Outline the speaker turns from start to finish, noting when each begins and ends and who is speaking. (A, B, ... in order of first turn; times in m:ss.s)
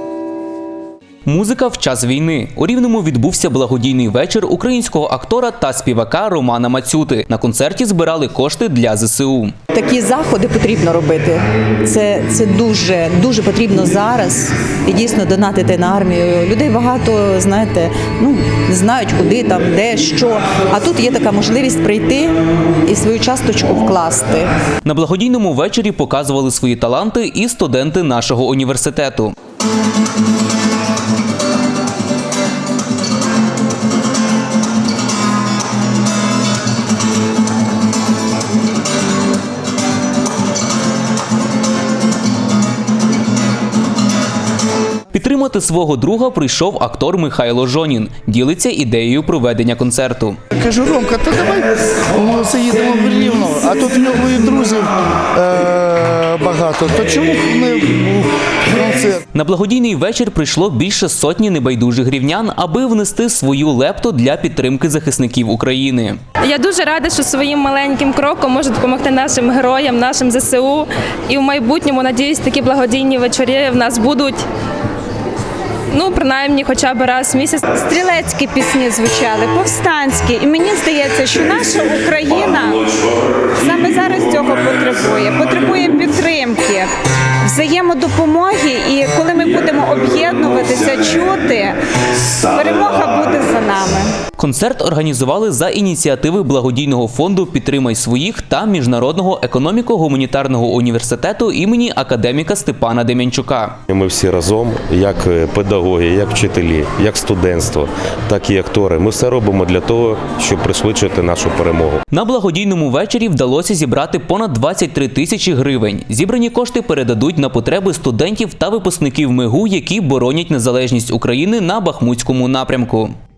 0:01.2-0:09.5 A
0:09.7-0:24.5 B
0:24.8-0:29.3 A
0:45.1-0:50.4 A
0:50.5-0:59.2 C
0:59.3-1:06.2 A
1:06.4-1:14.5 D
1:15.9-1:17.7 D
1:17.6-1:26.9 E
1:27.4-1:34.2 E
1:34.4-1:43.8 A
1:43.9-1:52.0 F
1:52.1-2:03.1 A